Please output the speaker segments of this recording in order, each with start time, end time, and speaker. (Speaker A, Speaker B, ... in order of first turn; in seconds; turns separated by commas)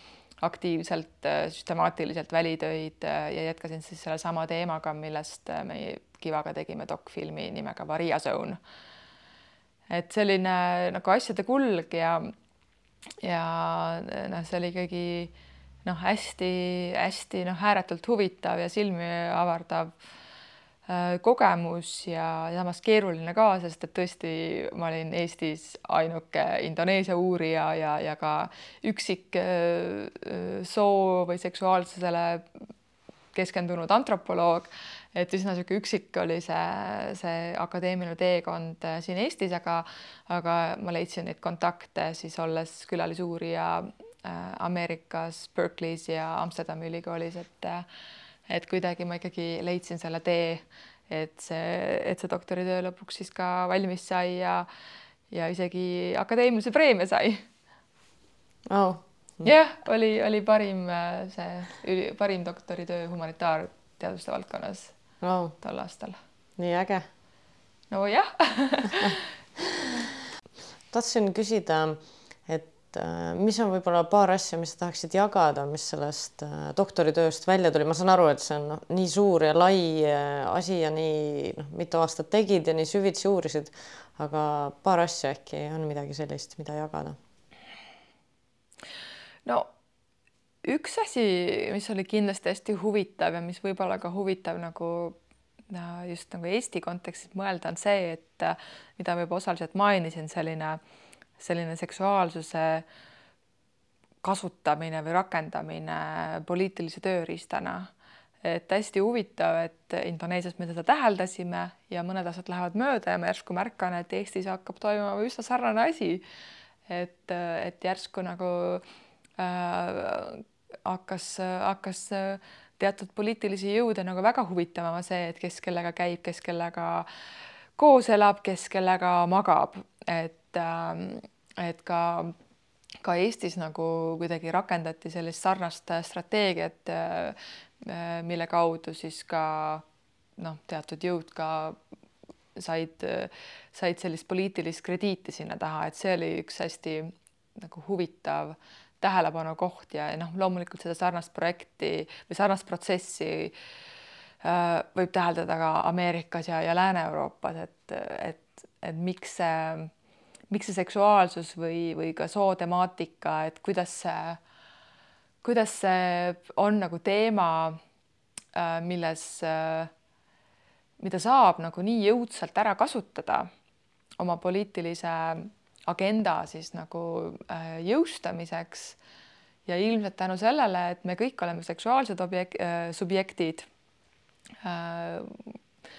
Speaker A: 0.4-8.6, Speaker A: 9.9-12.3, Speaker A: 13.2-15.3, Speaker A: 15.8-19.9, Speaker A: 20.9-32.4, Speaker A: 33.3-47.9, Speaker A: 48.5-54.7, Speaker A: 55.3-57.5, Speaker B: 58.7-59.5, Speaker A: 59.4-64.9, Speaker B: 65.2-65.5, Speaker A: 65.6-66.2, Speaker B: 66.6-67.0, Speaker A: 67.9-69.2, Speaker B: 70.9-87.2, Speaker A: 90.6-95.2, Speaker A: 95.7-100.8, Speaker A: 101.4-102.8, Speaker A: 104.2-107.9, Speaker A: 108.4-116.2, Speaker A: 116.9-118.8, Speaker A: 119.4-127.1, Speaker A: 127.8-132.3, Speaker A: 133.0-139.8, Speaker A: 140.4-141.8, Speaker A: 142.5-153.5, Speaker A: 154.4-159.9, Speaker A: 160.5-164.4, Speaker A: 165.4-167.8, Speaker A: 168.5-169.9, Speaker A: 171.0-173.5, Speaker A: 174.2-179.0, Speaker A: 179.7-183.7, Speaker A: 184.6-185.6